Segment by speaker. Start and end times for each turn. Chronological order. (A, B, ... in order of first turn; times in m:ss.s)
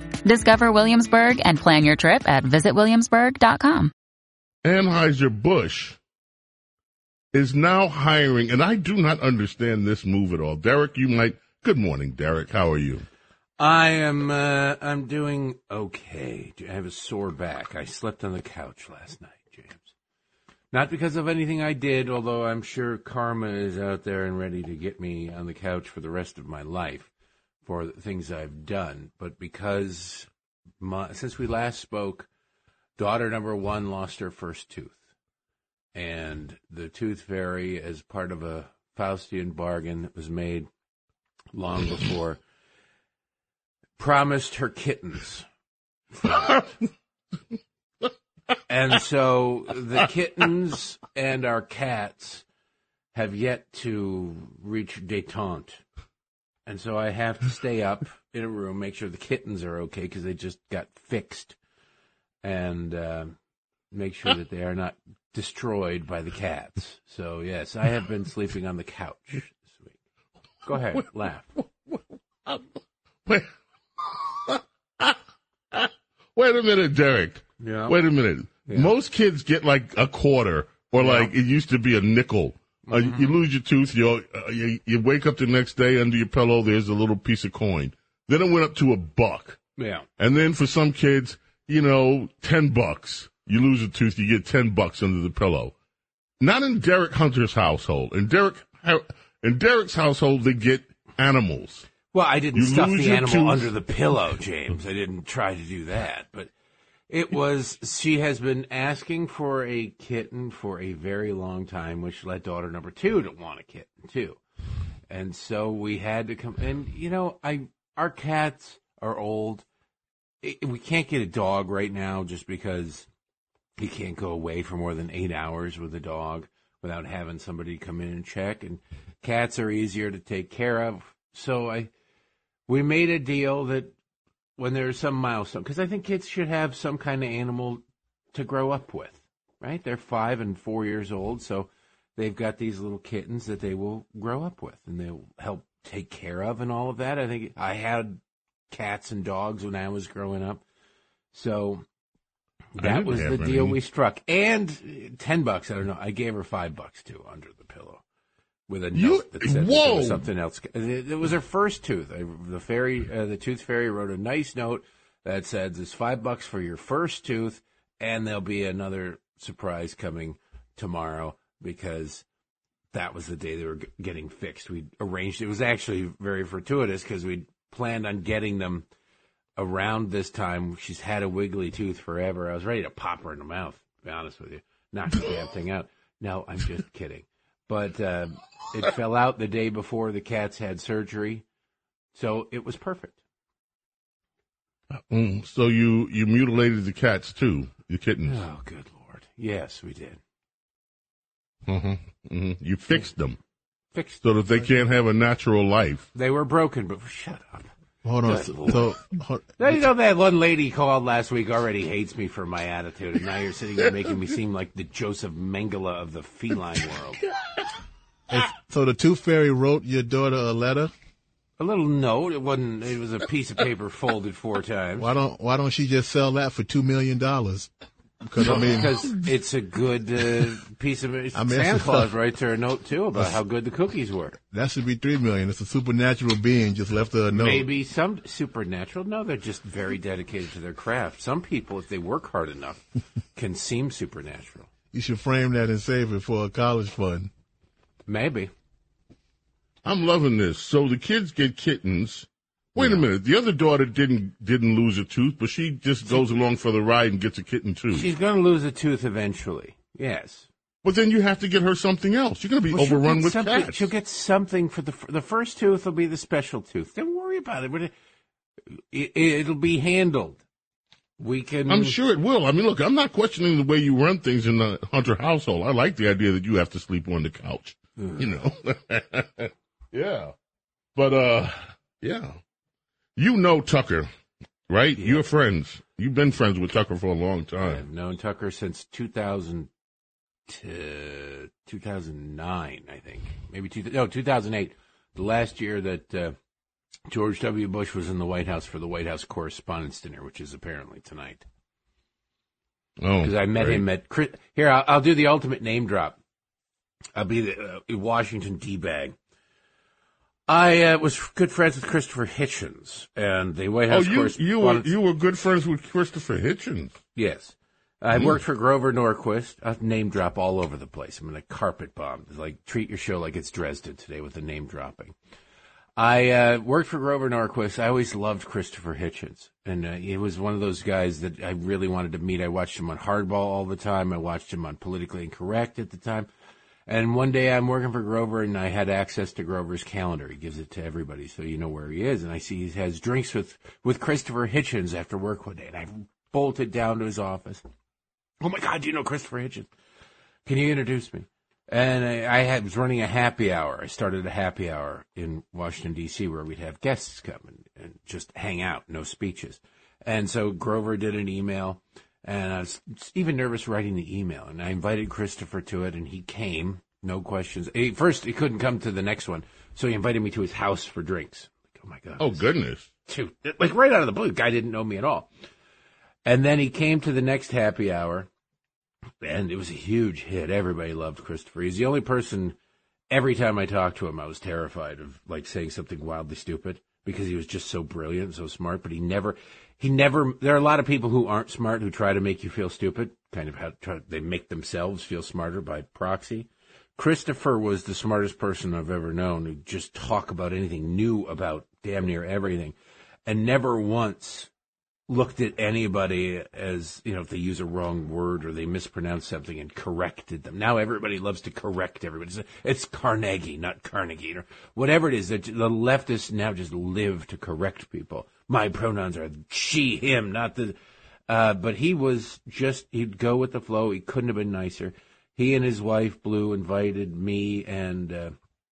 0:00.2-0:03.9 A
0:04.6-0:06.0 B
0:07.3-0:13.0 B
0:13.6-0:19.9 C
0:20.7-0:27.1 C
0:27.6-0:30.3 C
0:30.8-0:32.3 C
0:33.0-0:35.0 C
0:35.9-0:40.7 C
0:41.5-0:42.4 C
0:44.0-0:45.4 C
0:46.1-0:46.6 C
0:46.3-0:46.7 B
0:48.7-0:52.4 C
0:53.1-0:55.8 C
0:56.6-1:01.6 C
1:02.4-1:03.4 C
1:03.9-1:10.0 C
1:10.6-1:11.5 C
1:10.7-1:11.0 B
1:11.6-1:12.7 B
1:13.2-1:15.2 B
1:15.7-1:29.6 B
1:17.6-1:18.0 C
1:18.6-1:18.9 C
1:21.0-1:21.3 C
1:22.9-1:23.3 C
1:29.8-1:30.1 C
1:30.2-1:35.7 B
1:36.4-1:41.9 B
1:42.1-1:46.5 C
1:42.5-1:43.7 B
1:47.1-1:54.4 C
1:55.1-1:59.6 C
2:00.4-2:03.1 C
2:03.8-2:11.9 C
2:12.7-2:13.9 C
2:14.6-2:17.8 C
2:18.3-2:30.6 C
2:31.3-2:31.8 C
2:32.7-2:38.0 C
2:32.8-2:33.8 B
2:38.7-2:52.2 C
2:38.9-2:40.2 B
2:52.9-2:58.8 C
2:59.6-3:11.4 C
3:12.1-3:13.2 C
3:14.9-3:18.4 B
3:18.2-3:20.2 C
3:21.6-3:23.4 B
3:23.9-3:24.6 C
3:24.2-3:26.1 B
3:26.1-3:27.7 C
3:28.0-3:29.8 D
3:28.2-3:29.0 C
3:29.6-3:37.2 C
3:38.3-3:40.9 D
3:41.6-3:45.1 C
3:45.0-3:47.7 D
3:48.2-3:49.1 D
3:48.4-3:54.4 C
3:51.3-3:52.1 D
3:54.5-3:57.7 D
3:57.3-4:02.8 C
4:03.3-4:04.7 C
4:04.9-4:07.3 D
4:08.1-4:08.5 C
4:09.8-4:18.1 B
4:12.8-4:13.0 C
4:17.9-4:20.5 C
4:20.8-4:23.9 B
4:22.7-4:27.9 C
4:28.9-4:30.4 C
4:31.2-4:32.0 C
4:31.7-4:40.3 B
4:38.0-4:38.3 C
4:41.0-4:42.4 B
4:43.2-4:44.1 B
4:44.7-4:47.8 B
4:45.0-4:45.2 C
4:47.6-4:49.7 C
4:50.5-4:56.4 C
4:57.1-5:01.4 C
5:03.0-5:03.8 B
5:03.2-5:06.2 C
5:07.2-5:09.2 C
5:10.5-5:14.9 C
5:13.9-5:17.0 B
5:17.1-5:25.1 C
5:18.1-5:18.4 B
5:26.0-5:36.3 C
5:36.9-5:47.6 C
5:48.4-5:49.7 C
5:50.4-6:12.4 C
6:12.2-6:12.9 B
6:13.0-6:15.3 C
6:16.2-6:18.3 C
6:19.2-6:22.6 C
6:23.1-6:42.7 C
6:43.2-6:44.5 C
6:45.1-7:00.7 C
7:01.3-7:08.3 C